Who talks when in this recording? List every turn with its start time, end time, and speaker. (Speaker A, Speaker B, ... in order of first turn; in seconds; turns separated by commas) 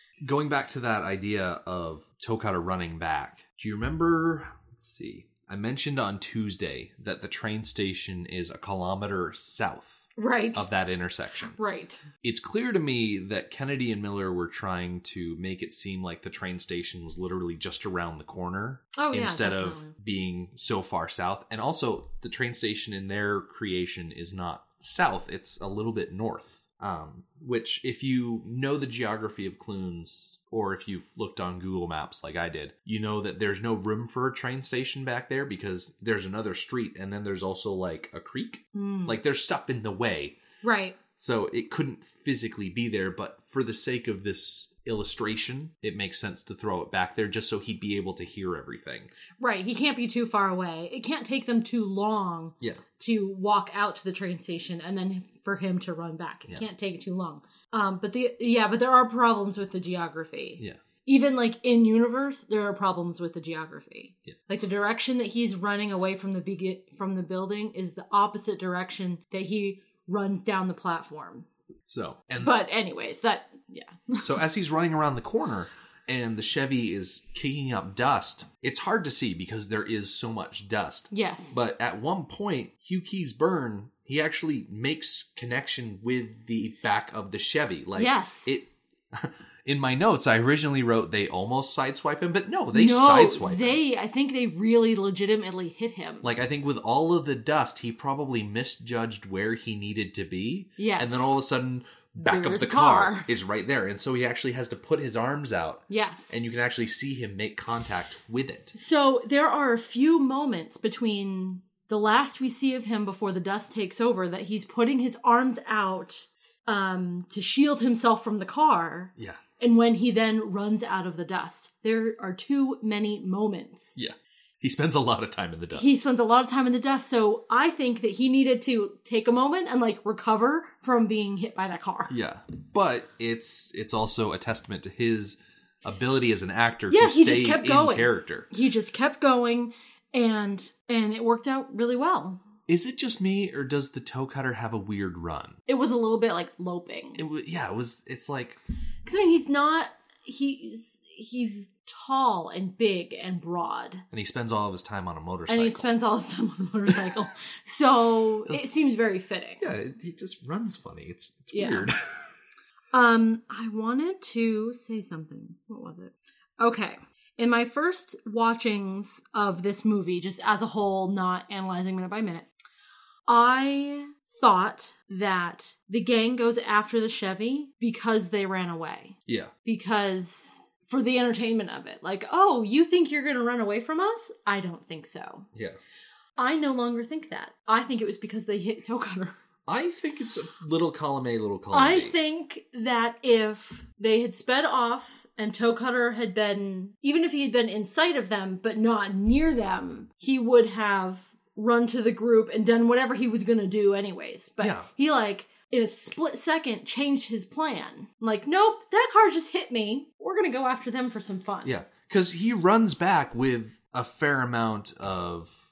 Speaker A: 0.2-11.6, Speaker B: 10.2-10.7, Speaker B: 11.6-12.0, Speaker A: 12.2-40.4, Speaker B: 19.0-19.9, Speaker B: 38.7-39.2, Speaker B: 40.6-41.0, Speaker A: 41.2-49.1, Speaker B: 49.4-71.5, Speaker A: 71.9-72.5, Speaker B: 72.4-74.3, Speaker A: 74.2-93.8, Speaker B: 81.1-81.6, Speaker B: 88.0-88.5, Speaker B: 92.7-96.3, Speaker A: 96.2-108.7, Speaker B: 100.8-101.4, Speaker B: 102.2-103.3, Speaker B: 105.9-106.4, Speaker B: 108.7-124.0, Speaker A: 119.2-119.4, Speaker A: 124.0-126.0, Speaker B: 125.7-132.1, Speaker A: 132.1-138.5, Speaker B: 136.9-142.4, Speaker A: 142.7-145.6, Speaker B: 145.7-147.2, Speaker A: 147.2-148.6, Speaker B: 149.1-154.0, Speaker A: 154.1-155.9, Speaker B: 155.5-159.7, Speaker A: 159.6-162.0, Speaker B: 161.5-161.9, Speaker B: 162.9-172.5, Speaker B: 173.3-185.5, Speaker A: 179.3-179.5, Speaker B: 186.4-189.4, Speaker A: 189.7-192.2, Speaker B: 191.7-211.7, Speaker A: 204.6-204.9, Speaker A: 211.7-215.6